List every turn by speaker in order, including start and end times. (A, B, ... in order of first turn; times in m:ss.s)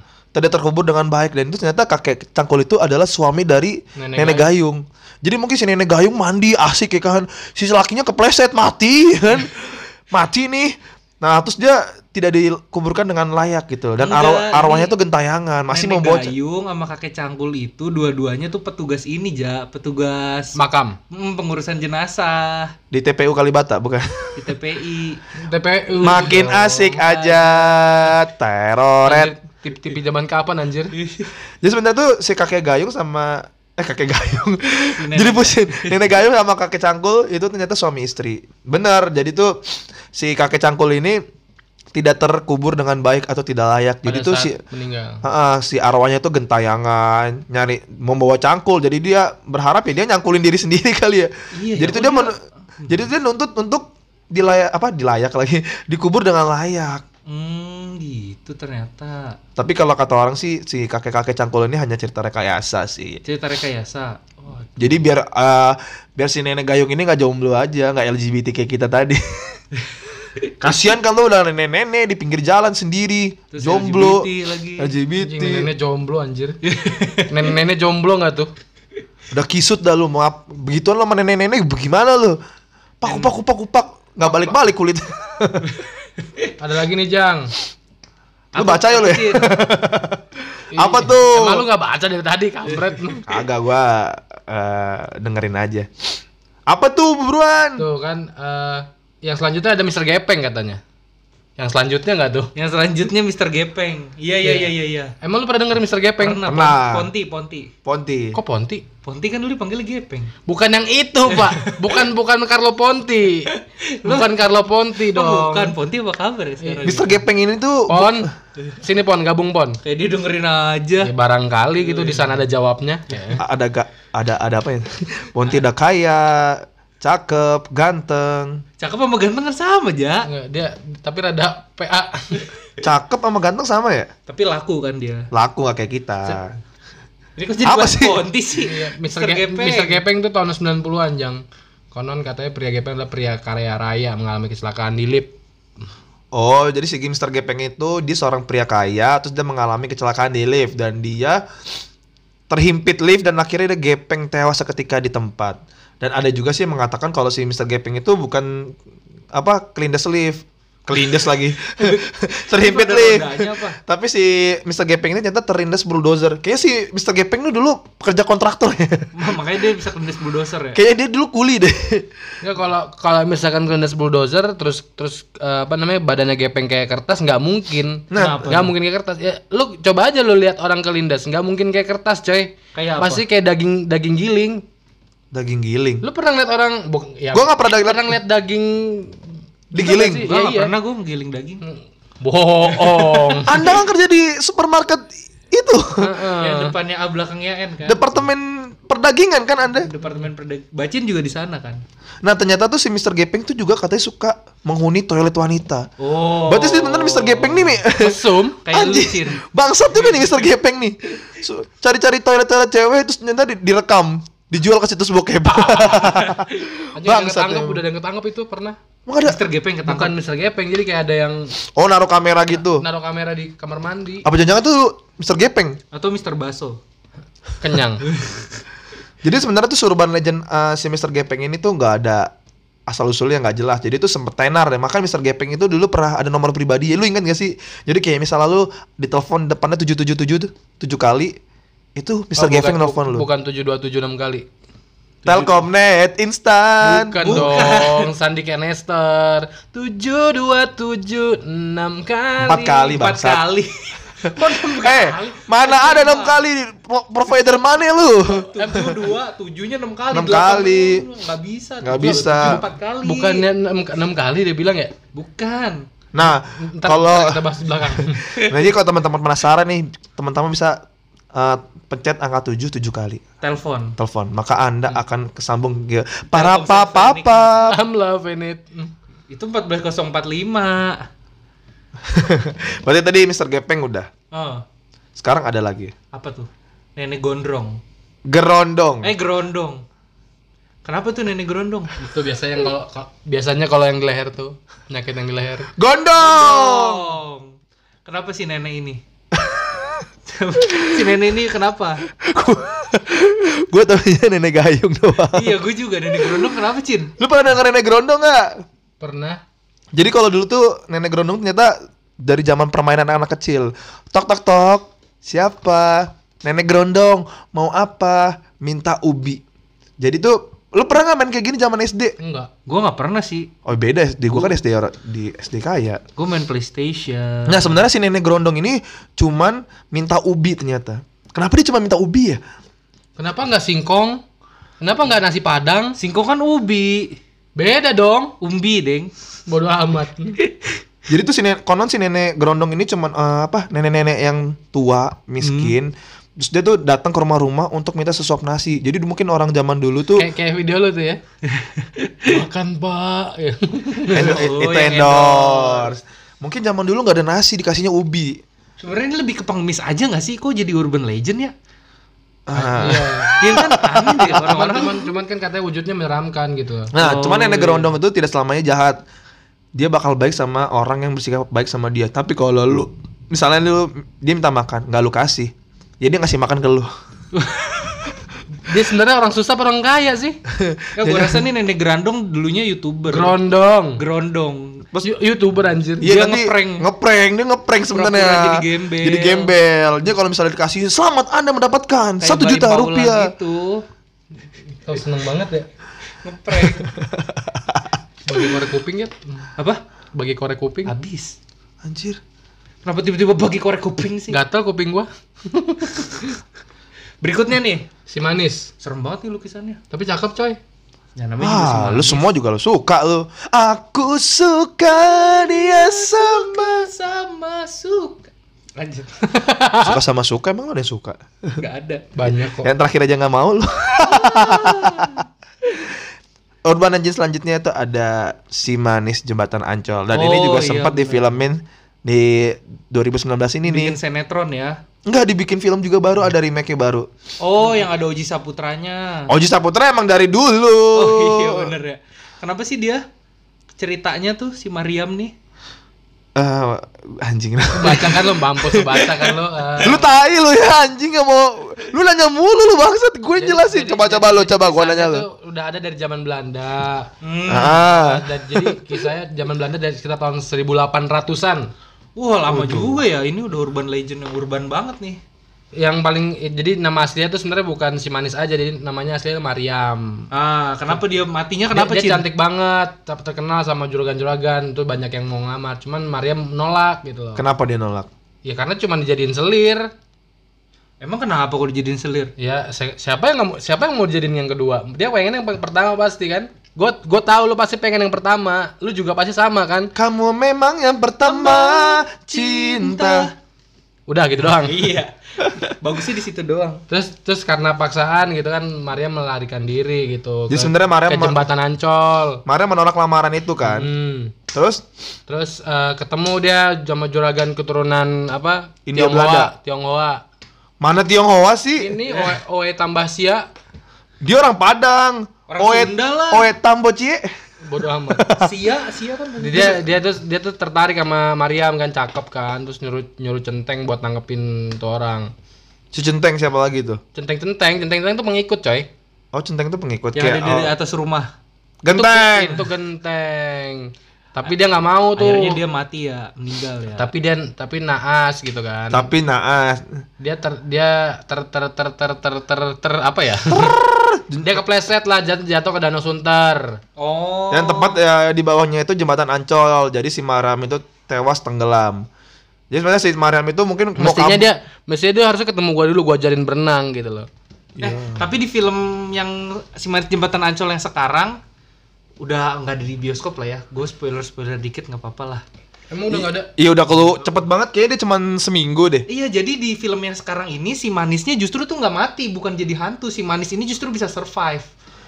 0:00.3-0:16.3 A
0:04.0-0:04.5 B
0:14.0-0:14.9 C
0:15.7-0:20.6 C
0:20.6-0:21.0 B
0:21.1-0:22.7 C
0:22.9-0:24.5 A
0:24.4-0:25.2 C
0:25.4-0:26.9 B
0:26.0-0:28.2 C
0:26.0-0:29.3 A
0:29.1-0:30.9 B
0:30.9-0:31.3 C
0:31.6-0:39.6 A
0:35.0-0:36.0 C
0:40.1-0:41.2 A
0:41.9-0:44.6 A
0:44.0-0:45.2 B
0:45.2-0:52.4 A
0:51.6-0:53.0 C
0:52.9-0:57.0 A
0:57.3-0:59.3 C
0:59.6-1:03.2 A
1:03.2-1:04.9 C
1:04.8-1:09.6 A
1:09.8-1:10.7 C
1:10.6-1:15.7 A
1:13.5-1:15.0 C
1:15.2-1:16.6 B
1:16.6-1:17.5 C
1:17.3-1:18.5 B
1:19.3-1:22.4 A
1:23.0-1:25.7 A
1:23.0-1:23.3 C
1:26.6-1:27.5 B
1:28.5-1:29.7 C
1:28.6-1:31.6 A
1:30.7-1:33.2 B
1:33.3-1:35.9 A
1:36.7-1:37.8 A
1:37.8-1:40.8 B
1:41.6-1:42.5 B
1:42.6-1:45.1 C
1:44.4-1:44.7 B
1:45.2-1:46.4 B
1:46.2-1:47.7 C
1:46.4-1:47.1 A
1:47.8-1:48.4 A
1:48.3-1:48.8 B
1:49.0-1:50.3 C
1:50.5-1:53.5 B
1:51.3-1:52.0 C
1:53.5-1:54.3 C
1:54.0-1:55.7 B
1:55.1-1:57.2 C
1:56.8-1:58.3 A
1:57.9-1:59.8 B
1:59.8-2:01.1 C
2:01.0-2:03.4 B
2:01.8-2:02.4 C
2:03.4-2:08.6 A
2:08.8-2:10.3 C
2:10.2-2:12.4 B
2:12.8-2:14.1 A
2:14.3-2:15.3 C
2:15.3-2:16.5 A
2:17.4-2:20.0 C
2:17.6-2:18.2 A
2:18.6-2:25.3 B
2:26.3-2:31.4 A
2:32.5-2:38.8 A
2:39.3-2:49.3 A
2:41.8-2:43.8 C
2:49.1-2:50.8 C
2:50.7-2:52.3 A
2:52.4-3:04.6 B
2:58.1-2:58.7 A
2:58.2-2:58.6 C
3:02.7-3:03.2 C
3:05.3-3:06.0 A
3:06.0-3:09.2 B
3:07.3-3:08.1 A
3:09.7-3:10.3 A
3:09.7-3:10.7 B
3:10.2-3:11.6 C
3:11.6-3:13.5 B
3:12.7-3:13.7 C
3:13.5-3:16.1 A
3:16.0-3:16.7 B
3:16.4-3:18.0 C
3:17.8-3:19.9 A
3:19.8-3:21.8 C
3:22.2-3:25.9 A
3:26.0-3:27.8 C
3:26.4-3:37.8 A
3:28.0-3:28.6 B
3:28.6-3:29.4 C
3:29.9-3:30.5 C
3:35.5-3:36.2 B
3:36.9-3:38.8 B
3:39.0-3:39.4 A
3:39.2-3:40.1 C
3:39.8-3:41.5 B
3:41.8-3:42.8 A
3:42.6-3:44.2 B
3:44.2-3:45.8 A
3:45.9-3:46.8 C
3:47.6-3:48.0 B
3:48.0-3:48.4 C
3:49.2-3:52.3 A
3:52.9-4:01.3 A
4:02.0-4:03.2 A
4:02.3-4:04.4 B
4:05.2-4:07.6 A
4:06.8-4:12.7 B
4:07.2-4:08.1 C
4:12.4-4:13.4 A
4:12.5-4:16.4 C
4:14.2-4:18.9 A
4:14.8-4:15.4 B
4:18.6-4:19.0 B
4:18.6-4:23.4 C
4:20.1-4:21.0 A
4:21.8-4:22.6 A
4:22.0-4:24.9 B
4:25.1-4:25.8 C
4:26.1-4:30.8 A
4:26.2-4:28.2 B
4:28.4-4:28.6 C
4:31.3-4:33.2 A
4:33.4-4:34.0 C
4:34.0-4:37.7 A
4:36.3-4:37.5 C
4:37.6-4:38.9 B
4:39.3-4:41.0 C
4:42.0-4:44.1 A
4:44.3-4:44.6 C
4:45.2-4:45.9 A
4:46.1-4:47.8 C
4:48.3-4:49.1 A
4:49.0-4:49.8 C
4:50.8-4:51.9 C
4:52.0-4:55.7 B
4:55.8-4:57.2 A
4:56.2-4:57.5 C
4:58.0-4:59.0 C
4:59.3-5:00.0 A
5:00.3-5:02.0 C
5:00.8-5:01.1 A
5:02.1-5:05.6 A
5:05.3-5:07.1 C
5:06.2-5:06.4 A
5:07.2-5:08.6 A
5:09.0-5:09.4 B
5:09.9-5:19.4 A
5:20.0-5:22.1 A
5:22.2-5:22.5 B
5:22.7-5:23.5 C
5:23.6-5:26.0 A
5:26.2-5:27.8 C
5:27.5-5:32.4 A
5:33.2-5:34.2 B
5:34.8-5:36.0 B
5:36.0-5:37.2 C
5:37.6-5:38.3 B
5:38.4-5:39.1 C
5:39.5-5:40.4 B
5:41.1-5:50.3 A
5:45.4-5:45.7 C
5:50.2-5:51.2 B
5:51.5-5:52.3 C
5:52.3-5:54.3 B
5:54.1-5:55.9 C
5:54.1-5:58.4 A
5:58.8-6:01.5 C
6:02.5-6:04.6 A
6:02.6-6:05.1 C
6:02.7-6:03.4 B
6:04.3-6:06.9 B
6:06.9-6:09.0 A
6:07.0-6:07.9 C
6:09.7-6:16.9 A
6:18.6-6:20.4 B
6:20.5-6:21.4 A
6:21.0-6:23.3 C
6:23.1-6:24.0 B
6:24.0-6:24.8 C
6:25.0-6:26.1 B
6:26.0-6:33.3 A
6:26.0-6:26.8 C
6:27.9-6:29.5 C
6:32.2-6:33.8 C
6:34.8-6:35.7 B
6:36.2-6:36.9 C
6:36.7-6:37.9 A
6:38.2-6:39.5 B
6:40.1-6:40.9 B
6:40.9-6:41.3 C
6:41.8-6:42.2 A
6:42.8-6:44.4 C
6:44.3-6:46.3 B
6:47.2-6:47.8 C
6:48.1-6:48.7 B
6:48.8-6:49.8 C
6:49.9-6:50.6 B
6:51.2-6:52.2 C
6:51.4-6:56.9 A
6:55.1-6:58.3 C
6:58.8-7:00.0 B
6:59.8-7:01.6 A
7:01.6-7:02.1 C
7:02.2-7:02.7 B
7:02.6-7:05.2 A
7:04.0-7:05.2 C
7:06.6-7:14.0 A
7:10.1-7:11.4 C
7:13.6-7:14.8 C
7:15.0-7:17.1 A
7:17.4-7:19.3 C
7:19.3-7:21.7 A
7:20.9-7:23.0 C
7:23.8-7:25.3 C
7:26.4-7:28.2 A
7:27.7-7:30.0 B
7:28.8-7:30.0 C
7:29.8-7:35.2 A
7:33.4-7:37.1 B
7:37.2-7:37.8 C
7:37.5-7:38.8 A
7:37.8-7:41.7 B
7:42.2-7:45.2 C
7:42.5-7:43.0 A
7:45.8-7:50.3 B
7:50.3-7:52.2 C
7:51.7-7:57.4 B
7:57.4-7:58.1 A
7:58.4-7:59.9 B
8:01.0-8:02.3 C
8:02.4-8:09.9 B
8:10.0-8:13.3 A
8:11.2-8:13.3 C
8:14.1-8:14.9 B
8:14.5-8:16.8 C
8:16.9-8:22.4 B
8:20.5-8:21.4 A
8:22.4-8:23.9 A
8:23.6-8:24.3 B
8:24.5-8:24.8 A
8:25.3-8:30.2 B
8:28.9-8:29.5 A
8:30.8-8:32.0 A
8:31.8-8:33.4 B
8:32.1-8:32.3 C
8:34.2-8:37.3 A
8:35.5-8:36.5 C
8:37.6-8:38.2 B
8:38.1-8:38.5 A
8:38.4-8:39.8 C
8:39.4-8:45.3 B
8:45.9-8:47.0 A
8:47.1-8:48.9 B
8:49.3-8:50.7 A
8:50.1-8:51.3 C
8:51.8-8:52.6 A
8:51.9-8:55.6 B
8:55.2-8:57.1 C
8:57.0-8:59.1 B
8:58.9-9:00.0 A
9:00.2-9:03.8 B
9:03.4-9:04.6 A
9:04.4-9:06.8 B
9:07.0-9:08.0 C
9:07.5-9:12.0 A
9:12.7-9:14.5 A
9:14.0-9:17.3 B
9:17.8-9:18.3 A
9:18.1-9:21.4 C
9:22.2-9:25.4 C
9:25.9-9:26.5 B
9:26.1-9:29.0 A
9:29.1-9:34.7 C